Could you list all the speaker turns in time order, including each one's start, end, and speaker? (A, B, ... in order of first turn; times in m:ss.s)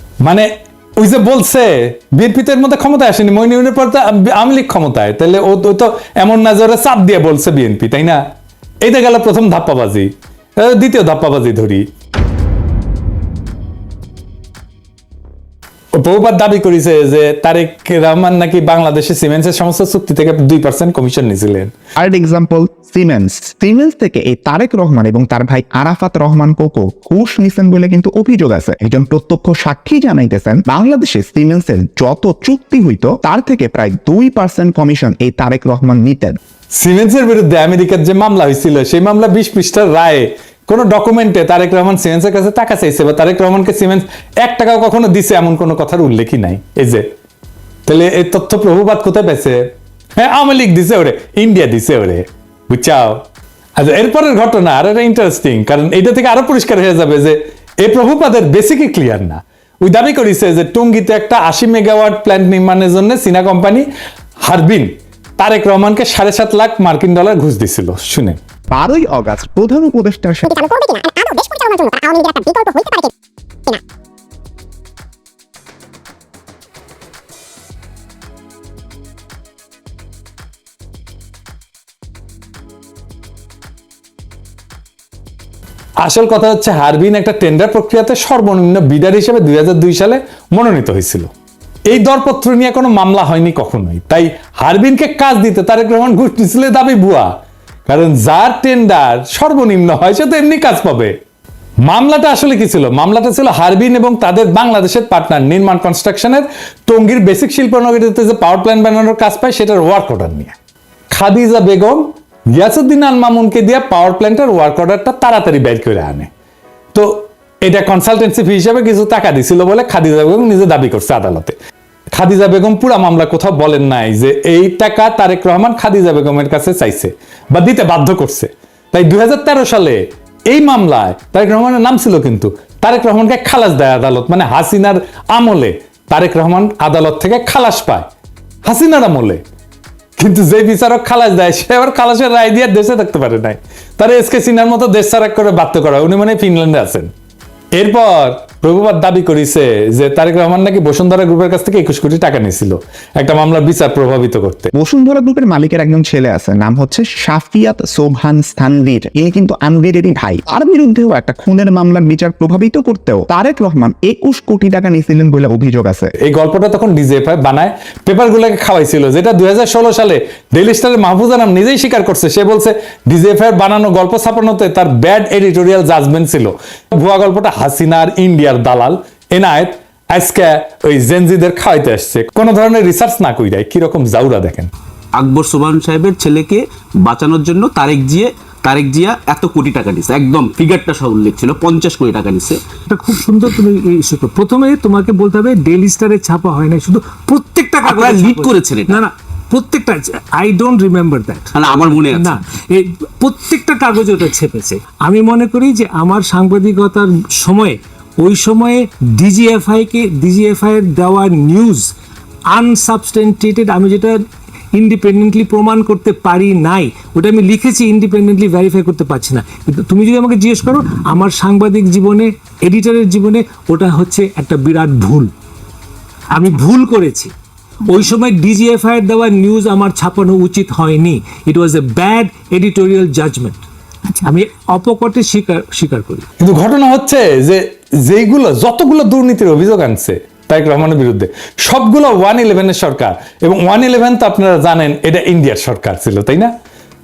0:00.2-0:08.2 A
0:08.8-0:11.8 A
0:15.9-0:21.7 A
0:22.0-0:36.4 B
0:36.7-0:47.1 A
0:47.8-0:53.2 A
0:53.8-1:03.8 A
1:04.4-1:08.4 A
1:08.7-1:10.6 B
1:10.4-1:13.1 C
1:26.0-1:31.3 A
1:31.9-1:37.3 A
1:37.9-1:41.2 A
1:41.8-1:50.5 A
1:51.1-1:56.3 A
1:56.9-2:01.6 A
2:02.2-2:18.1 A
2:18.6-2:19.4 A
2:20.2-2:27.1 A
2:27.8-2:34.7 A
2:34.7-2:46.1 B
2:46.2-3:04.7 A
3:05.2-3:12.6 D
3:12.9-3:31.9 E
3:17.8-3:19.0 D
3:21.5-3:22.4 D
3:32.5-3:34.2 E
3:34.7-3:45.3 E
3:46.3-3:47.3 E
3:47.8-3:56.2 E
3:56.4-4:06.5 A